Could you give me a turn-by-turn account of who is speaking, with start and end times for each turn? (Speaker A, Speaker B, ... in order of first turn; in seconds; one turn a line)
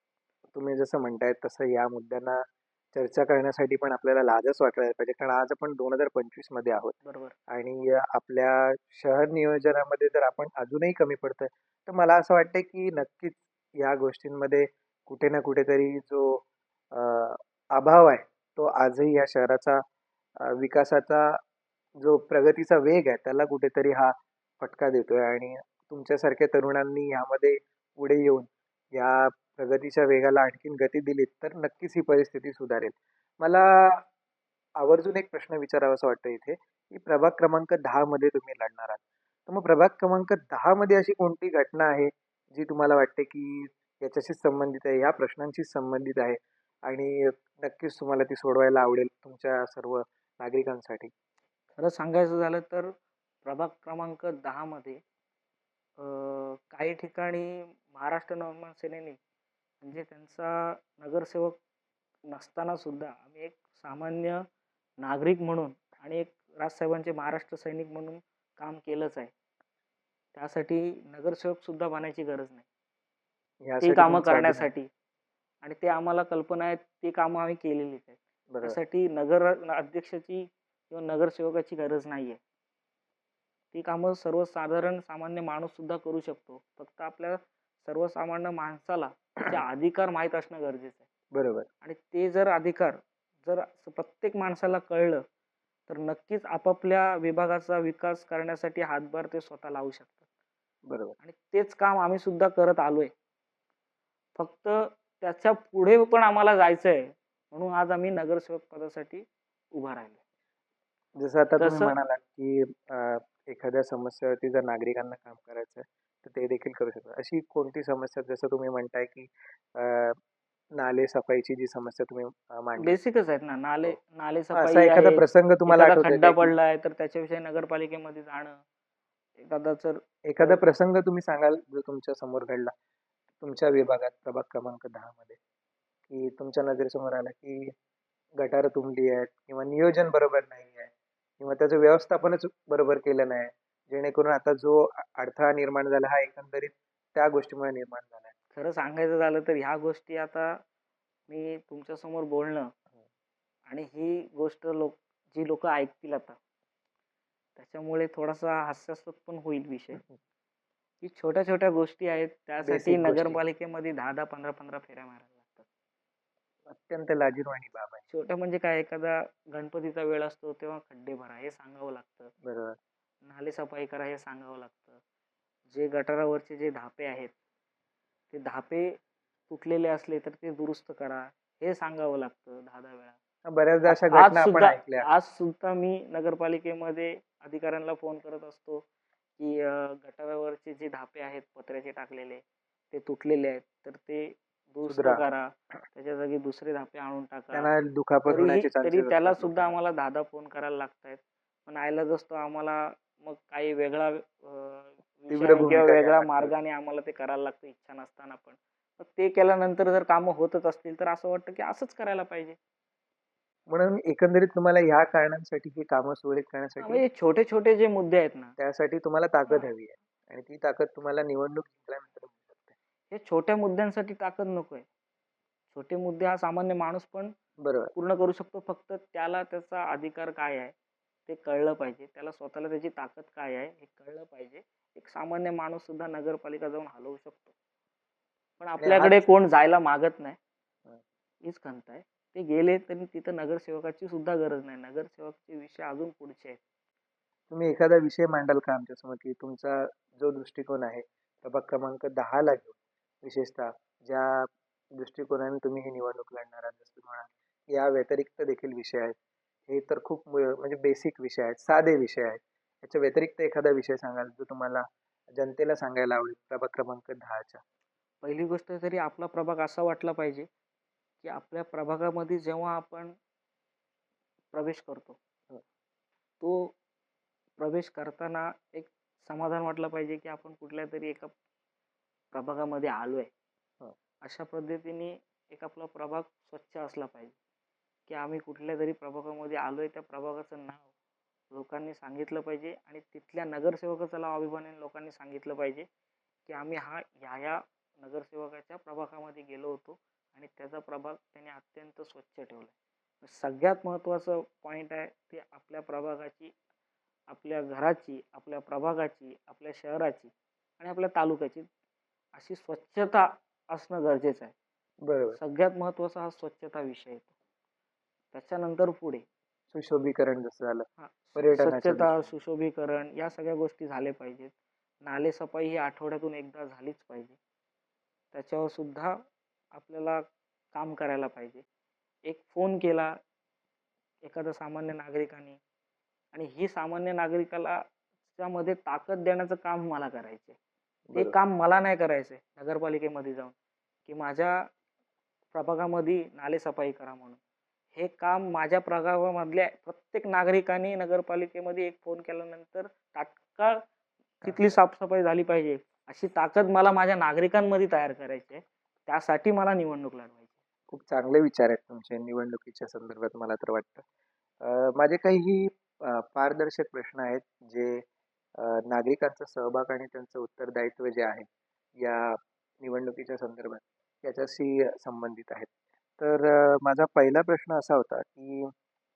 Speaker A: 0.5-7.0
Speaker B: 7.0-7.3
Speaker A: 7.5-19.8
Speaker A: 20.4-21.4
Speaker A: 22.0-34.0
Speaker A: 34.8-51.1
Speaker B: 51.8-52.9
Speaker B: 53.4-55.0
Speaker B: 56.0-59.2
Speaker B: 59.8-61.6
Speaker B: 62.3-64.4
Speaker B: 65.0-69.3
Speaker B: 70.3-72.7
Speaker A: 73.6-74.7
Speaker B: 73.8-74.9
Speaker B: 75.6-82.4
Speaker A: 78.5-78.8
Speaker B: 83.7-91.0
Speaker A: 91.3-91.7
Speaker B: 91.8-95.2
Speaker B: 95.9-100.2
Speaker A: 100.9-101.2
Speaker B: 101.2-103.1
Speaker B: 104.4-110.2
Speaker A: 111.2-120.2
Speaker B: 111.6-111.9
Speaker A: 120.8-123.0
Speaker B: 122.8-128.6
Speaker A: 124.5-126.5
Speaker B: 129.4-130.6
Speaker A: 130.2-132.7
Speaker A: 133.4-135.4
Speaker A: 136.1-137.7
Speaker A: 138.4-148.3
Speaker B: 148.5-150.6
Speaker B: 151.3-152.7
Speaker B: 153.7-156.4
Speaker B: 157.6-160.0
Speaker B: 161.0-165.7
Speaker A: 162.6-163.4
Speaker A: 166.7-168.0
Speaker B: 168.1-172.3
Speaker A: 172.4-172.8
Speaker B: 173.2-175.0
Speaker B: 175.7-177.3
Speaker B: 178.3-183.2
Speaker A: 183.5-185.1
Speaker B: 183.9-188.8
Speaker B: 189.4-197.7
Speaker A: 194.8-195.2
Speaker A: 197.5-199.8
Speaker B: 198.3-212.6
Speaker A: 205.3-206.5
Speaker A: 213.7-217.0
Speaker B: 216.8-218.5
Speaker A: 218.6-222.7
Speaker B: 223.1-224.8
Speaker B: 225.7-227.3
Speaker A: 227.6-227.9
Speaker B: 227.9-230.7
Speaker B: 231.3-237.5
Speaker B: 238.6-240.4
Speaker A: 238.8-239.2
Speaker B: 241.4-246.6
Speaker A: 247.5-259.1
Speaker A: 259.7-267.6
Speaker B: 268.2-270.5
Speaker B: 271.2-273.1
Speaker B: 274.5-275.2
Speaker B: 276.4-276.7
Speaker B: 277.6-281.3
Speaker B: 282.3-283.3
Speaker B: 284.2-287.4
Speaker B: 288.1-290.9
Speaker B: 291.5-295.9
Speaker B: 296.5-302.7
Speaker B: 303.2-306.5
Speaker B: 307.3-311.7
Speaker B: 312.3-314.5
Speaker A: 315.0-315.4
Speaker B: 315.3-317.3
Speaker B: 318.3-319.2
Speaker A: 319.7-322.3
Speaker B: 321.0-324.5
Speaker B: 325.0-327.4
Speaker B: 328.3-329.1
Speaker B: 329.7-330.2
Speaker B: 330.7-331.6
Speaker B: 332.2-333.1
Speaker B: 334.2-335.6
Speaker B: 336.3-337.8
Speaker B: 338.4-340.6
Speaker A: 341.1-341.3
Speaker B: 341.1-343.5
Speaker B: 344.1-344.7
Speaker B: 345.5-347.4
Speaker B: 347.9-353.8
Speaker A: 354.4-354.8
Speaker B: 354.4-360.5
Speaker A: 360.9-364.0
Speaker A: 364.6-368.0
Speaker A: 368.6-371.5
Speaker A: 372.0-378.7